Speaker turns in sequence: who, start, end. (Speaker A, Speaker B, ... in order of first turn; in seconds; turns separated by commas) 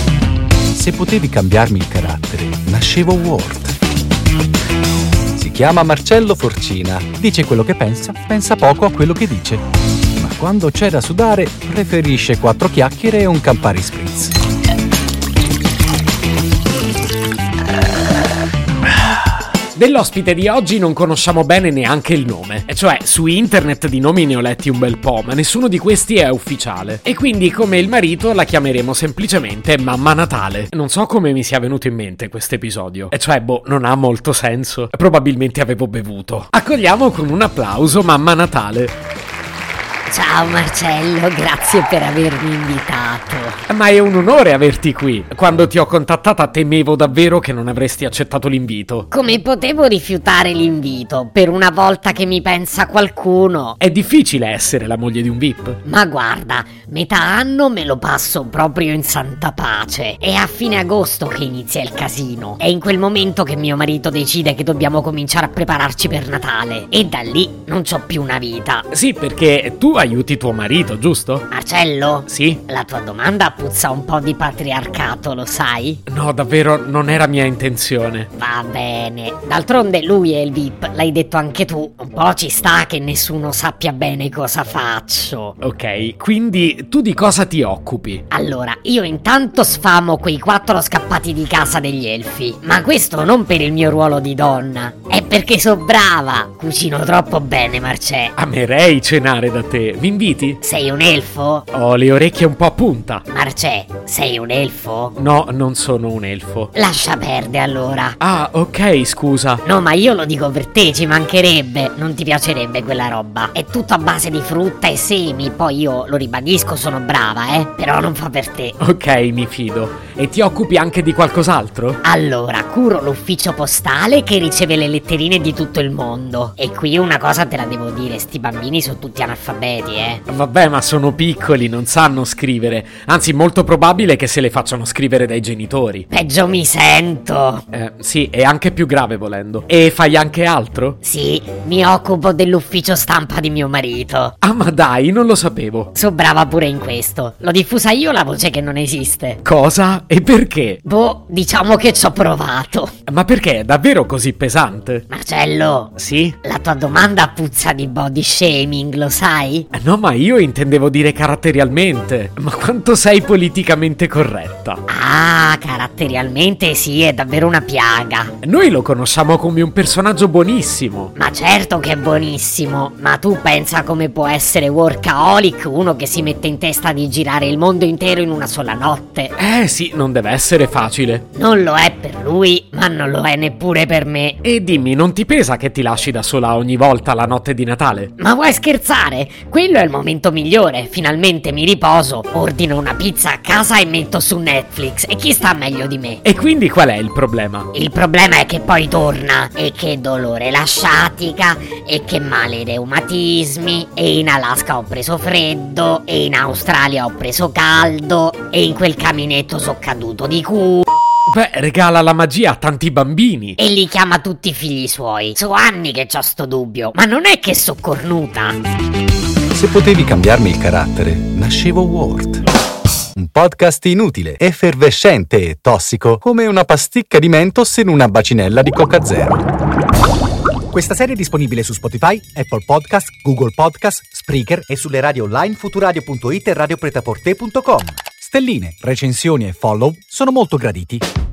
Speaker A: 0.7-3.8, Speaker A: 5.3-9.6, Speaker A: 10.2-14.3, Speaker B: 19.7-39.0, Speaker C: 40.1-43.6, Speaker B: 43.7-49.1, Speaker C: 49.1-53.8, Speaker B: 53.8-55.8, Speaker C: 55.8-68.9, Speaker B: 68.9-71.5, Speaker C: 71.5-76.0, Speaker B: 72.3-72.6, Speaker B: 76.1-78.3, Speaker C: 78.4-85.5, Speaker B: 85.6-88.2, Speaker C: 88.3-98.3, Speaker B: 98.3-100.6, Speaker C: 100.6-101.7, Speaker B: 101.7-103.2, Speaker C: 103.3-105.1, Speaker B: 105.2-106.7, Speaker C: 106.7-108.2, Speaker B: 108.2-109.6, Speaker C: 109.6-118.8, Speaker B: 118.8-122.0, Speaker C: 122.0-130.2, Speaker B: 130.3-136.1, Speaker C: 136.1-137.6, Speaker B: 137.7-141.0, Speaker C: 141.0-144.3, Speaker B: 144.4-145.9, Speaker C: 145.9-149.4, Speaker B: 149.4-150.8, Speaker C: 150.8-152.9, Speaker B: 153.1-155.0, Speaker C: 155.1-159.7, Speaker B: 156.0-156.3, Speaker B: 159.7-164.8, Speaker C: 164.9-168.3, Speaker B: 168.4-171.1, Speaker C: 171.2-179.3, Speaker B: 179.4-181.2, Speaker C: 181.3-184.4, Speaker B: 184.4-188.1, Speaker C: 188.2-196.2, Speaker B: 196.2-197.7, Speaker C: 197.7-210.8, Speaker B: 211.3-213.6, Speaker C: 213.6-218.6, Speaker A: 219.5-222.4, Speaker A: 223.1-229.4, Speaker A: 230.7-241.1